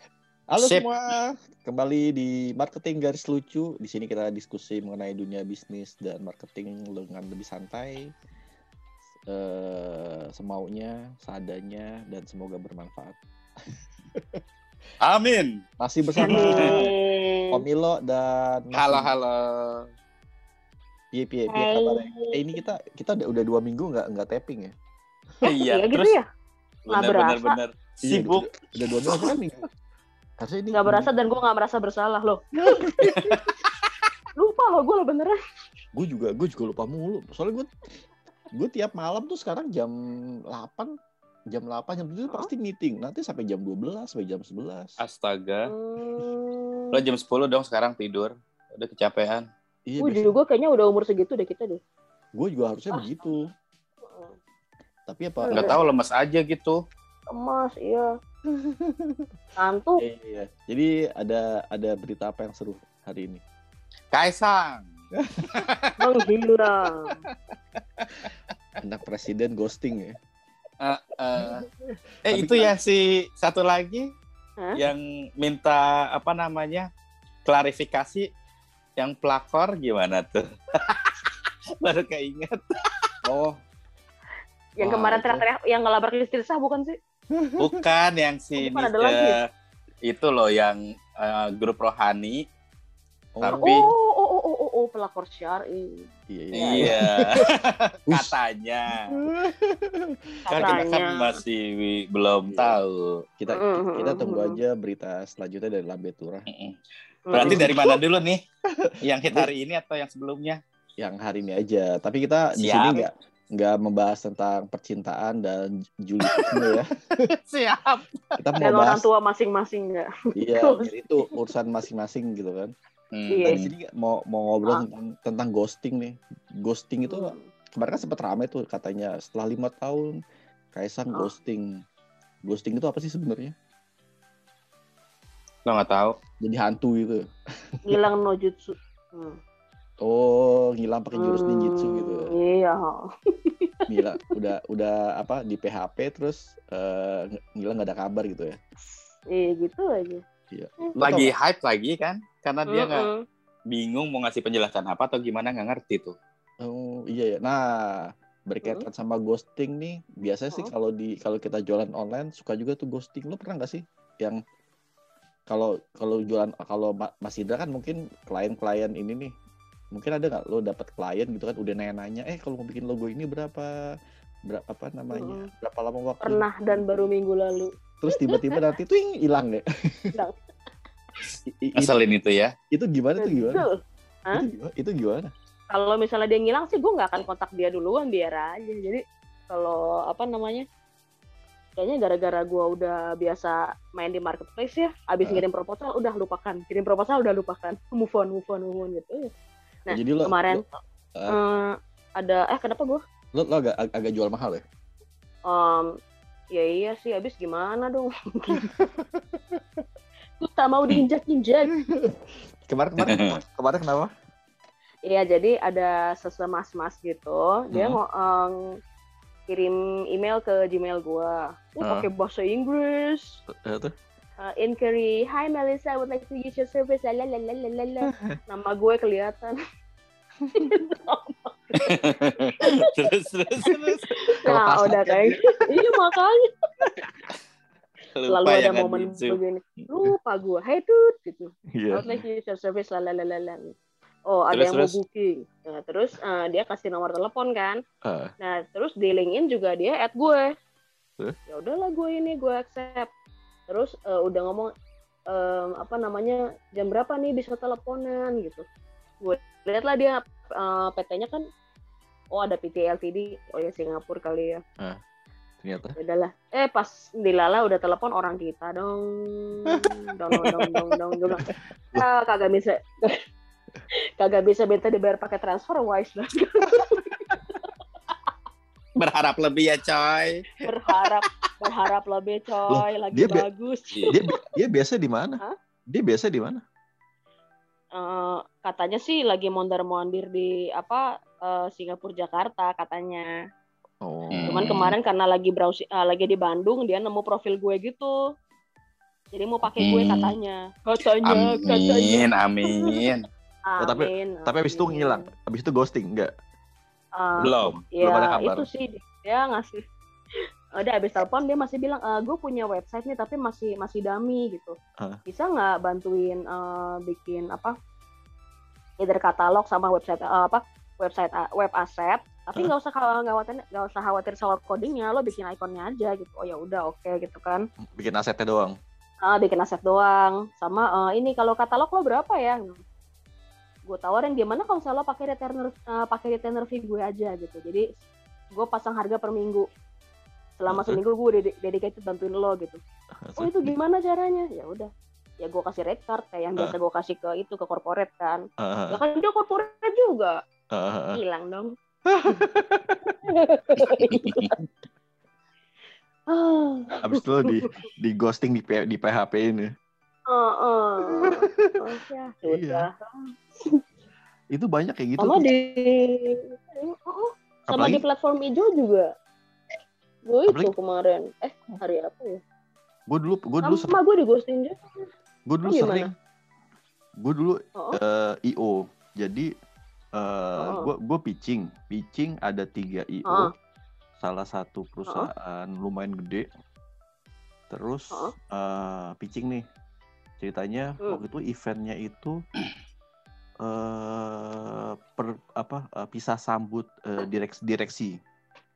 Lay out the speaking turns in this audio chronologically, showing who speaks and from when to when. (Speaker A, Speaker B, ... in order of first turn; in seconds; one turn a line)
Speaker A: 0.5-8.1
Speaker B: 0.6-0.9
Speaker A: 9.3-13.2
Speaker A: 14.1-14.4
Speaker B: 15.0-15.6
Speaker A: 15.8-16.9
Speaker C: 16.2-17.6
Speaker B: 16.2-16.8
Speaker A: 17.5-19.1
Speaker B: 18.7-19.8
Speaker A: 21.1-24.7
Speaker C: 21.5-22.6
Speaker B: 25.4-26.1
Speaker C: 25.6-26.2
Speaker C: 26.9-27.6
Speaker B: 26.9-28.5
Speaker A: 28.0-29.6
Speaker A: 30.4-31.1
Speaker C: 30.7-33.2
Speaker A: 32.6-33.5
Speaker C: 34.4-35.4
Speaker A: 35.9-37.7
Speaker A: 38.5-39.9
Speaker A: 40.5-40.9
Speaker A: 41.5-45.0
Speaker B: 45.0-45.7
Speaker C: 45.7-47.0
Speaker B: 46.9-49.4
Speaker A: 49.9-50.4
Speaker C: 50.0-51.8
Speaker A: 52.4-53.4
Speaker C: 52.9-53.3
Speaker C: 54.0-54.4
Speaker A: 55.1-55.8
Speaker C: 55.4-55.8
Speaker B: 55.5-56.8
Speaker C: 57.3-58.1
Speaker A: 58.5-59.2
Speaker C: 59.6-60.0
Speaker A: 60.0-63.4
Speaker B: 64.1-64.8
Speaker A: 65.2-65.7
Speaker B: 65.5-65.9
Speaker C: 66.0-67.2
Speaker B: 68.0-68.3
Speaker A: 68.8-70.1
Speaker B: 70.8-71.7
Speaker A: 71.3-71.6
Speaker B: 72.3-74.1
Speaker A: 72.3-72.7
Speaker B: 74.8-76.9
Speaker B: 77.5-78.3
Speaker B: 79.0-81.2
Speaker B: 81.8-83.4
Speaker C: 84.8-87.0
Speaker A: 84.8-85.4
Speaker A: 87.3-87.8
Speaker B: 87.6-89.4
Speaker C: 88.6-89.4
Speaker B: 90.0-92.4
Speaker A: 93.3-93.7
Speaker B: 93.4-93.9
Speaker C: 93.5-96.9
Speaker A: 96.3-97.5
Speaker B: 96.5-99.1
Speaker A: 98.1-98.3
Speaker A: 99.2-100.8
Speaker C: 100.5-101.4
Speaker B: 100.5-103.2
Speaker A: 102.4-102.8
Speaker A: 103.4-106.5
Speaker C: 103.5-104.6
Speaker B: 106.5-106.8
Speaker C: 107.3-107.8
Speaker B: 107.3-108.4
Speaker A: 107.4-107.8
Speaker A: 108.8-109.5
Speaker B: 109.0-110.6
Speaker A: 111.0-116.9
Speaker B: 112.6-113.1
Speaker B: 116.3-116.8
Speaker B: 117.3-118.2
Speaker A: 118.4-119.0
Speaker C: 118.6-120.1
Speaker A: 120.3-122.7
Speaker C: 120.6-120.9
Speaker B: 123.1-123.7
Speaker C: 123.3-123.6
Speaker A: 123.5-130.1
Speaker C: 127.1-127.5
Speaker A: 130.7-131.8
Speaker A: 132.4-133.5
Speaker B: 135.7-136.1
Speaker A: 136.4-137.2
Speaker C: 137.8-139.4
Speaker A: 140.0-142.3
Speaker C: 141.1-143.8
Speaker A: 143.9-148.6
Speaker C: 149.3-150.2
Speaker A: 150.5-151.3
Speaker B: 151.0-153.0
Speaker C: 152.7-153.2
Speaker B: 153.7-156.1
Speaker A: 156.6-164.4
Speaker A: 165.5-169.3
Speaker A: 169.9-173.7
Speaker A: 174.5-176.8
Speaker C: 175.1-175.5
Speaker C: 176.2-178.6
Speaker A: 178.0-180.1
Speaker A: 181.6-181.9
Speaker B: 181.8-182.5
Speaker A: 182.7-183.6
Speaker C: 183.2-184.4
Speaker A: 184.3-185.3
Speaker C: 185.7-190.7
Speaker C: 191.8-199.3
Speaker C: 199.9-203.0
Speaker A: 199.9-200.6
Speaker A: 203.3-204.6
Speaker C: 205.5-205.9
Speaker C: 206.5-208.6
Speaker A: 208.6-209.8
Speaker C: 210.4-211.8
Speaker A: 211.9-214.1
Speaker B: 213.0-213.4
Speaker C: 215.0-218.6
Speaker C: 219.5-223.4
Speaker A: 221.8-222.1
Speaker A: 223.6-223.9
Speaker C: 224.4-229.6
Speaker C: 230.5-231.9
Speaker B: 231.8-234.1
Speaker C: 232.6-232.9
Speaker A: 233.6-235.5
Speaker C: 234.3-236.5
Speaker A: 236.8-237.1
Speaker B: 238.2-239.4
Speaker C: 238.3-243.7
Speaker A: 241.8-242.2
Speaker C: 244.3-247.8
Speaker B: 244.5-244.9
Speaker A: 248.0-248.3
Speaker C: 248.4-250.5
Speaker C: 251.5-253.1
Speaker C: 253.7-254.7
Speaker C: 255.3-258.6
Speaker C: 259.2-261.4
Speaker C: 262.3-264.6
Speaker A: 265.6-265.9
Speaker C: 266.0-273.2
Speaker A: 270.3-272.0
Speaker C: 274.2-277.6
Speaker B: 279.0-280.5
Speaker C: 280.6-284.2
Speaker A: 282.7-283.4
Speaker B: 283.9-284.2
Speaker A: 284.1-286.6
Speaker C: 287.9-293.3
Speaker A: 294.0-294.6
Speaker B: 294.3-294.9
Speaker C: 294.5-298.2
Speaker C: 299.3-303.0
Speaker B: 299.8-300.3
Speaker B: 301.3-303.2
Speaker C: 303.7-305.2
Speaker A: 303.8-306.3
Speaker C: 307.2-309.8
Speaker A: 307.4-308.7
Speaker B: 307.4-307.8
Speaker C: 310.8-314.8
Speaker C: 315.3-317.7
Speaker C: 319.0-327.6
Speaker A: 327.8-328.7
Speaker C: 329.2-332.8
Speaker C: 333.9-337.9
Speaker C: 338.5-339.6
Speaker C: 340.6-342.8
Speaker A: 340.7-341.0
Speaker A: 343.2-343.7
Speaker C: 343.4-344.9
Speaker C: 345.4-350.4
Speaker A: 348.6-349.0
Speaker A: 350.8-351.2
Speaker C: 351.1-351.7
Speaker A: 352.1-353.1
Speaker C: 353.2-354.6
Speaker A: 353.8-354.0
Speaker B: 354.1-354.5
Speaker C: 356.3-357.8
Speaker A: 357.0-359.7
Speaker C: 360.3-362.9
Speaker A: 361.2-361.9
Speaker A: 362.5-362.9
Speaker A: 364.5-365.5
Speaker C: 365.2-369.1
Speaker A: 367.7-368.0
Speaker C: 370.3-372.4
Speaker A: 370.5-370.7
Speaker A: 373.1-374.0
Speaker C: 373.6-375.1
Speaker A: 375.5-376.1
Speaker C: 375.7-376.1
Speaker A: 377.2-379.5
Speaker A: 380.2-383.5
Speaker C: 380.6-380.9
Speaker C: 383.2-383.5
Speaker A: 384.2-386.5
Speaker A: 387.7-389.6
Speaker A: 390.4-392.4
Speaker A: 393.6-398.1